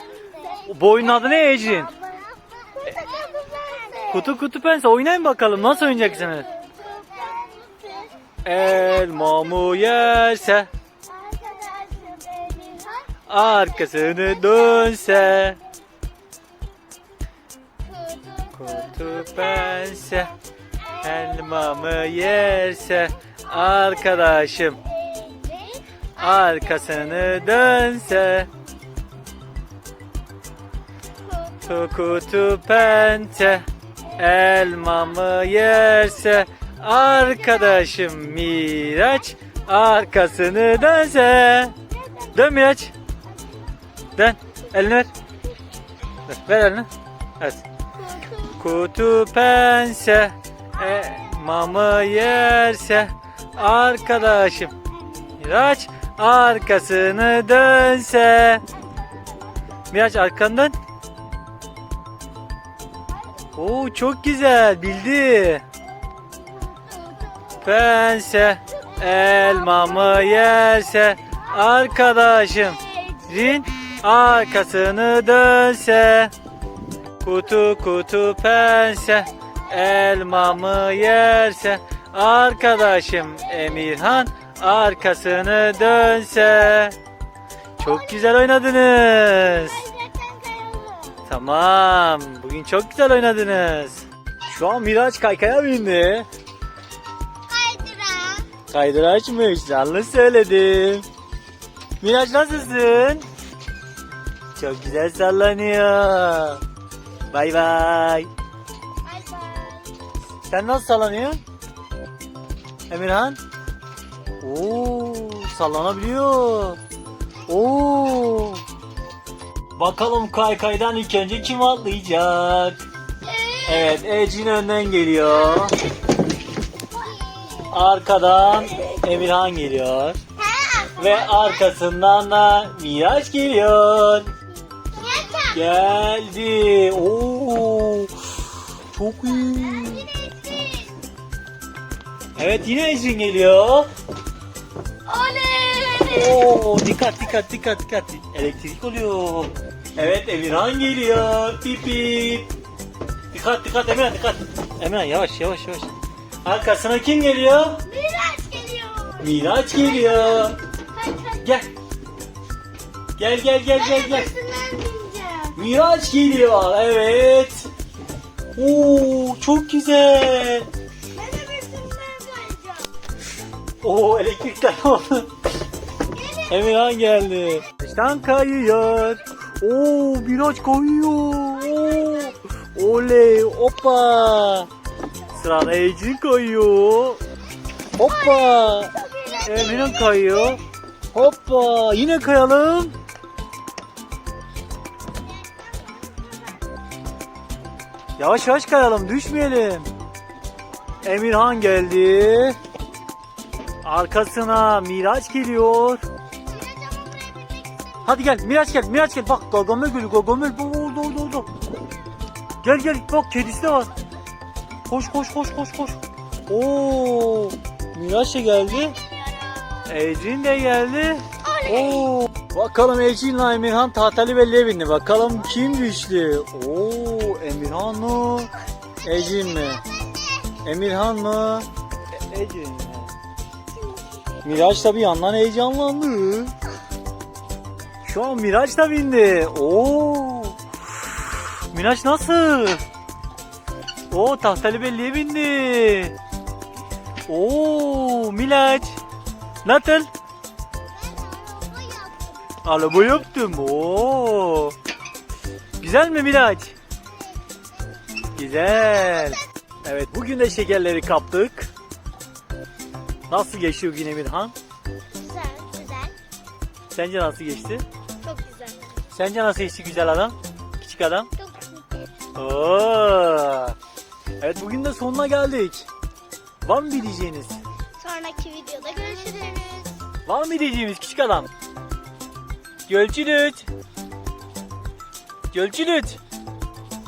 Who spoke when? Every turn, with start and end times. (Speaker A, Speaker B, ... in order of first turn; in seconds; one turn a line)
Speaker A: 0.2-0.6
Speaker B: 0.6-1.9
Speaker A: 1.4-4.1
Speaker B: 4.1-6.5
Speaker A: 6.3-8.1
Speaker B: 8.4-10.7
Speaker A: 11.1-13.2
Speaker B: 13.3-15.6
Speaker A: 17.8-20.2
Speaker B: 18.5-20.3
Speaker B: 20.9-24.8
Speaker A: 24.8-26.1
Speaker B: 26.2-28.5
Speaker B: 31.6-41.8
Speaker B: 42.3-42.9
Speaker B: 44.1-45.1
Speaker B: 46.2-46.9
Speaker B: 47.4-47.6
Speaker A: 48.1-48.5
Speaker B: 48.4-54.8
Speaker B: 55.3-58.6
Speaker B: 59.9-60.7
Speaker B: 63.5-65.6
Speaker A: 66.7-67.4
Speaker B: 67.6-76.3
Speaker A: 72.9-73.3
Speaker B: 77.2-87.0
Speaker B: 87.8-89.9
Speaker A: 89.6-91.2
Speaker B: 91.3-96.3
Speaker A: 97.5-98.5
Speaker B: 98.7-101.0
Speaker B: 102.0-103.2
Speaker B: 104.5-106.6
Speaker B: 107.3-108.3
Speaker A: 109.0-110.0
Speaker B: 110.5-111.4
Speaker B: 112.9-113.4
Speaker B: 114.4-116.8
Speaker B: 117.5-118.6
Speaker B: 119.8-122.8
Speaker A: 123.2-123.8
Speaker B: 123.6-125.9
Speaker A: 127.0-127.7
Speaker B: 127.6-130.2
Speaker A: 130.4-131.4
Speaker B: 130.9-134.3
Speaker A: 134.9-135.6
Speaker B: 135.5-140.1
Speaker A: 139.4-141.0
Speaker B: 142.3-143.9
Speaker A: 145.1-146.4
Speaker B: 146.0-152.5
Speaker B: 153.3-155.9
Speaker B: 156.4-157.8
Speaker A: 157.8-159.2
Speaker B: 159.2-160.6
Speaker A: 160.0-161.4
Speaker B: 161.4-161.7
Speaker B: 163.2-164.3
Speaker A: 163.8-165.6
Speaker B: 165.5-167.7
Speaker B: 168.5-170.7
Speaker A: 171.1-172.9
Speaker B: 173.8-175.3
Speaker A: 176.1-176.6
Speaker B: 176.3-184.7
Speaker B: 185.3-187.2
Speaker B: 187.9-190.6
Speaker A: 188.0-190.4
Speaker B: 191.1-192.9
Speaker A: 195.8-196.6
Speaker B: 198.2-199.9
Speaker B: 201.0-202.6
Speaker B: 203.8-206.0
Speaker A: 206.4-208.0
Speaker B: 208.0-211.5
Speaker B: 212.6-213.9
Speaker B: 214.9-219.0
Speaker A: 219.0-219.8
Speaker B: 219.8-228.5
Speaker A: 221.4-222.1
Speaker B: 229.0-229.8
Speaker A: 229.4-230.6
Speaker B: 230.6-231.7
Speaker B: 232.3-233.1
Speaker B: 234.4-236.5
Speaker B: 238.0-242.8
Speaker B: 244.1-246.1
Speaker B: 247.3-249.0
Speaker B: 249.6-250.1
Speaker A: 250.9-252.3
Speaker B: 252.6-254.8
Speaker B: 255.8-256.7
Speaker B: 258.3-261.7
Speaker B: 263.3-264.5
Speaker A: 265.1-266.1
Speaker B: 266.9-267.8
Speaker A: 268.2-268.9
Speaker B: 269.1-271.3
Speaker A: 271.4-272.1
Speaker B: 272.3-273.8
Speaker B: 274.4-275.9
Speaker B: 276.6-277.6
Speaker A: 278.0-280.0
Speaker B: 280.2-281.5
Speaker B: 282.9-283.7
Speaker B: 285.5-286.2